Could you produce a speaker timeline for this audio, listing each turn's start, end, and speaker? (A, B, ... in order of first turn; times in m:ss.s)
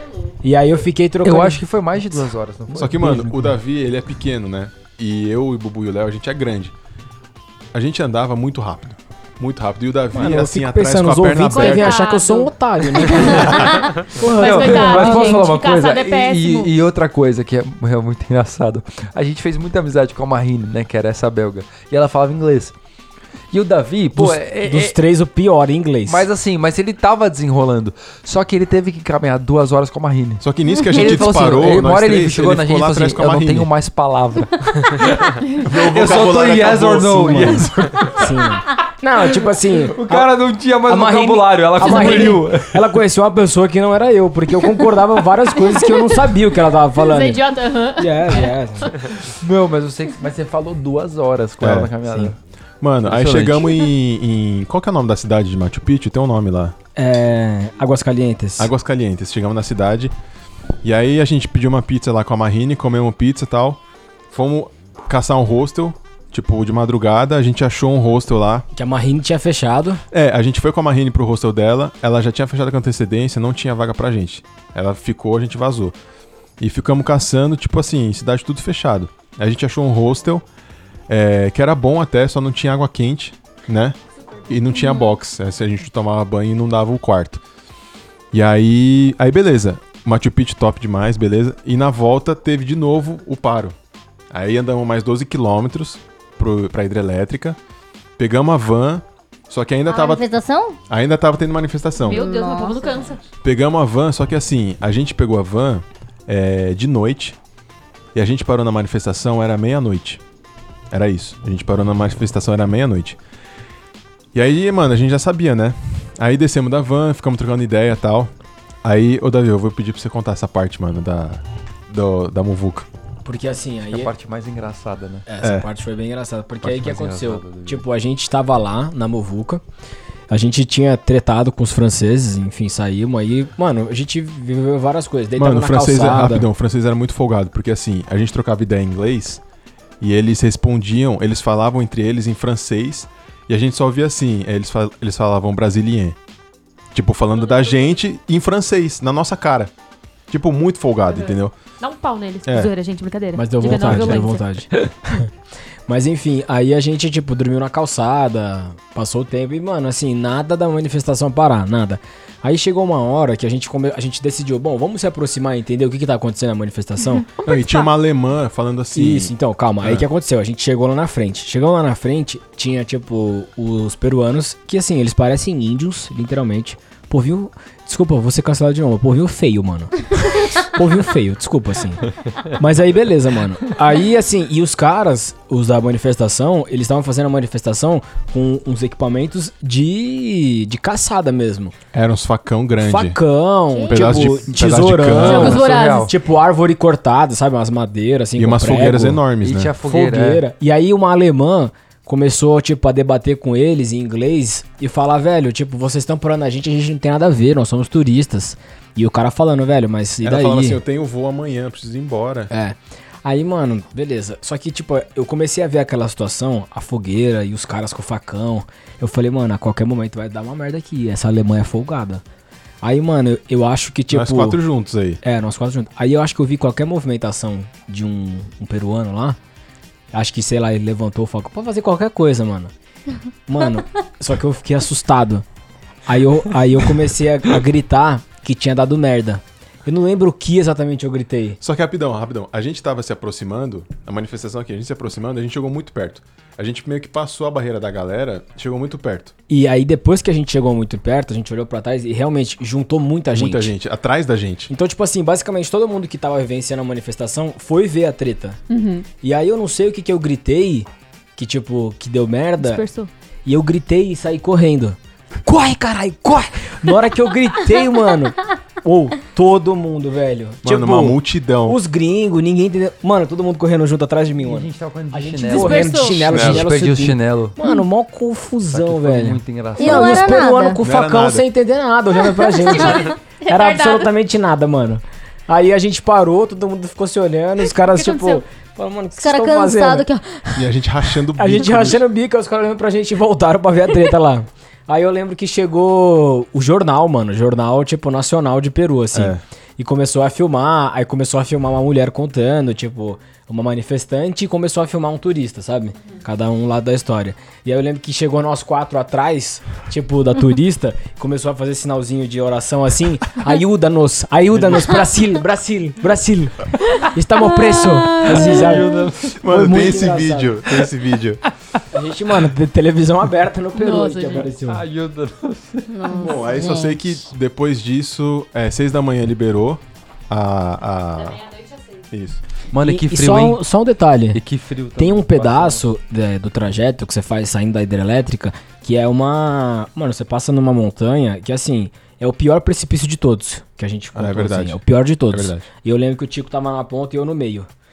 0:00.4-0:03.5 A
0:01.2-0:03.0 B
0:02.8-0:06.7 C
0:07.7-0:12.1 C
0:10.1-0:15.5 A
0:11.5-0:16.7 D
0:13.2-0:13.6 B
0:14.2-0:22.7 B
0:23.5-0:25.0 B
0:24.1-0:26.3 A
0:26.0-0:38.3 B
0:30.4-0:33.7 C
0:35.6-0:37.8 C
0:37.3-0:40.3 A
0:39.8-0:42.9 B
0:40.9-0:47.4 A
0:47.0-0:49.1 D
0:48.0-0:48.9 A
0:49.2-0:52.4 B
0:51.6-0:51.9 C
0:52.8-0:56.7 C
0:53.0-0:53.9 B
0:57.0-0:58.7 A
0:58.6-1:00.1 C
1:00.8-1:08.6 C
1:08.7-1:10.0 A
1:10.1-1:16.0 C
1:16.6-1:20.4 C
1:21.1-1:27.4 C
1:24.3-1:25.1 D
1:28.3-1:33.8 C
1:34.3-1:37.6 C
1:38.2-1:40.2 C
1:39.9-1:40.8 E
1:40.9-1:42.3 C
1:42.0-1:43.2 D
1:42.0-1:43.1 E
1:43.4-1:47.4 C
1:48.1-1:50.2 C
1:50.9-1:53.2 C
1:54.3-1:58.3 C
1:58.8-2:02.9 C
2:03.2-2:04.1 A
2:03.9-2:05.2 B
2:05.3-2:09.6 A
2:05.4-2:05.7 C
2:06.6-2:07.8 B
2:10.3-2:16.5 A
2:15.4-2:19.4 C
2:20.0-2:26.2 C
2:26.9-2:29.7 C
2:27.4-2:28.0 D
2:30.3-2:31.5 C
2:31.1-2:34.5 D
2:32.4-2:32.7 C
2:33.3-2:35.3 A
2:35.9-2:47.2 A
2:47.4-2:47.9 D
2:47.4-2:50.0 C
2:48.9-3:11.7 A
3:11.9-3:13.2 C
3:12.8-3:19.2 A
3:13.7-3:14.4 E
3:13.9-3:15.6 C
3:15.2-3:16.1 B
3:15.3-3:16.1 D
3:15.4-3:16.0 E
3:18.4-3:19.7 C
3:19.4-3:20.4 B
3:19.8-3:30.8 A
3:30.2-3:32.5 C
3:32.5-3:42.2 A
3:42.8-3:44.6 A
3:44.1-3:45.2 C
3:45.2-3:49.4 A
3:50.1-3:52.7 A
3:53.5-3:55.4 A
3:56.0-4:01.6 A
4:01.6-4:09.3 C
4:09.5-4:13.7 A
4:13.3-4:14.7 C
4:14.7-4:18.6 A
4:18.7-4:19.0 D
4:19.2-4:22.9 A
4:22.6-4:23.1 D
4:23.4-4:50.1 A
4:30.6-4:31.8 C
4:34.4-4:37.6 B
4:35.4-4:36.4 D
4:36.3-4:36.7 C
4:38.7-4:40.4 B
4:39.8-4:40.8 E
4:40.8-4:41.5 C
4:42.6-4:44.1 D
4:47.7-4:48.4 D
4:49.2-4:50.6 E
4:50.6-4:52.0 C
4:51.3-5:20.6 A
4:59.1-4:59.4 C
5:18.0-5:19.0 E
5:18.1-5:19.4 B
5:19.3-5:21.4 C
5:21.9-5:24.8 A
5:23.8-5:24.5 D
5:24.4-5:25.9 B
5:25.9-5:27.1 E
5:26.1-5:31.4 C
5:31.3-5:32.0 D
5:32.1-5:32.4 C
5:32.7-5:33.6 B
5:32.8-5:34.4 A
5:34.3-5:35.9 B
5:35.0-5:47.7 A
5:44.1-5:45.6 C